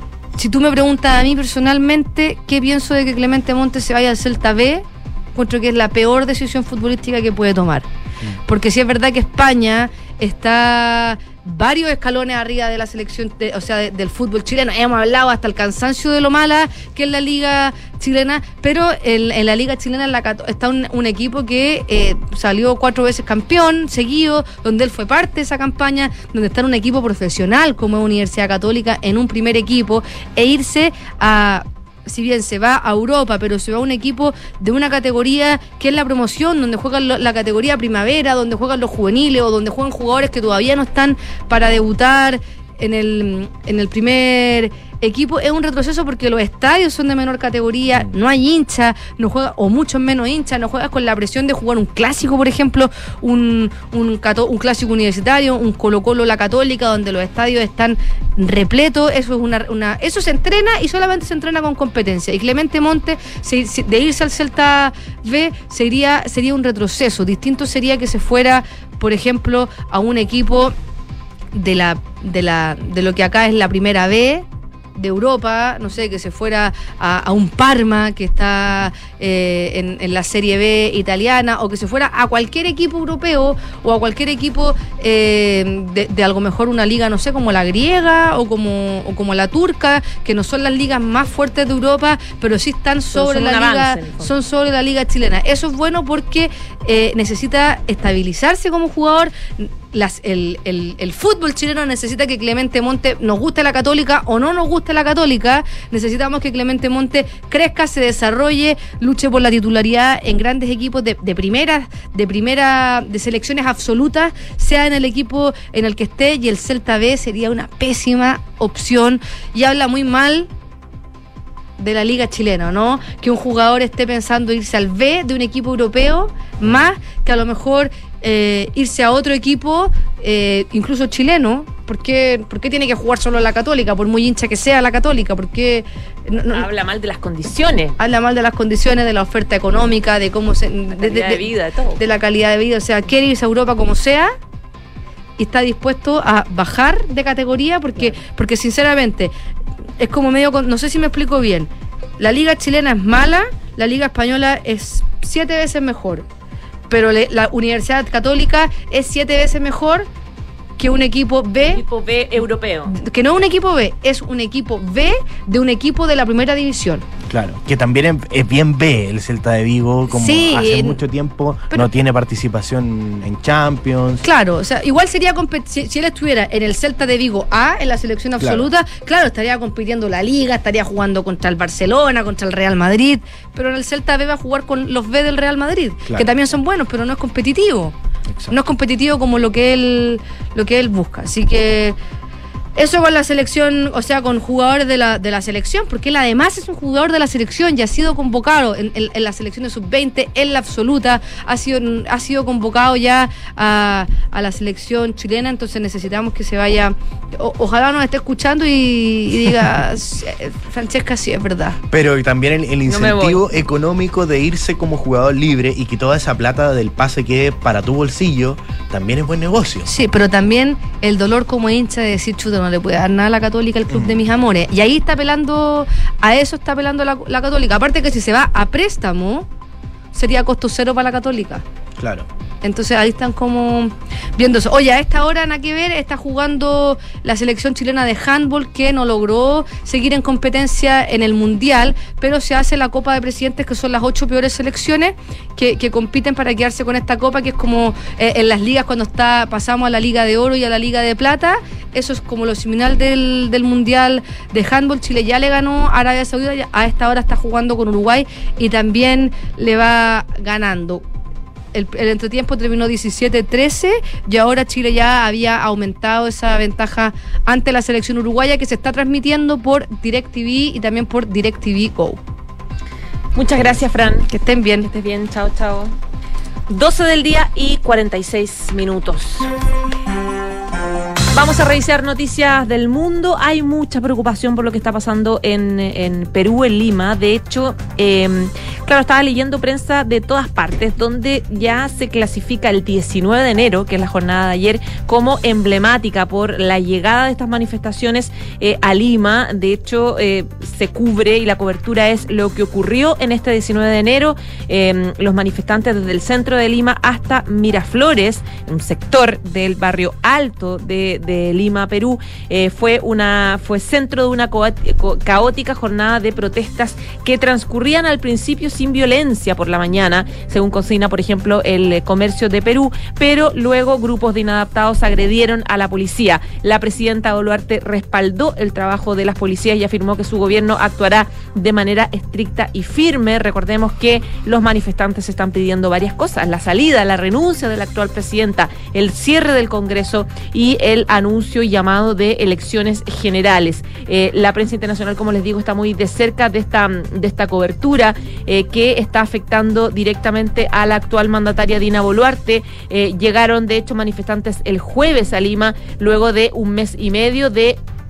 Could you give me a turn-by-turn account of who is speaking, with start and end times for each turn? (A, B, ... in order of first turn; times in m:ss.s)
0:00.4-0:07.9 A
0:08.5-1:10.7 A
1:11.5-2:00.5 A
1:33.1-1:34.3 B
2:01.8-2:16.7 A
2:16.5-2:18.0 B
2:18.0-2:21.5 A
2:21.0-2:22.0 B
2:22.0-2:24.3 A
2:25.4-2:29.3 A
2:30.0-2:36.2 A
2:36.9-2:40.1 A
2:40.8-2:41.8 A
2:41.6-2:42.9 B
2:42.9-2:47.0 A
2:47.3-2:54.2 C
2:50.1-2:51.0 A
2:54.2-3:07.9 A
2:58.4-2:58.7 C
3:08.5-3:12.0 A
3:12.8-3:31.8 A
3:31.9-3:39.9 C
3:32.9-3:33.4 B
3:39.9-3:49.5 A
3:43.9-3:44.2 C
3:50.1-3:51.6 A
3:52.0-3:52.3 C
3:52.6-4:21.0 A
4:21.7-4:32.2 A
4:33.4-4:34.3 B
4:34.3-4:34.9 A
4:34.8-4:35.9 B
4:36.7-4:39.5 B
4:41.3-5:57.8 B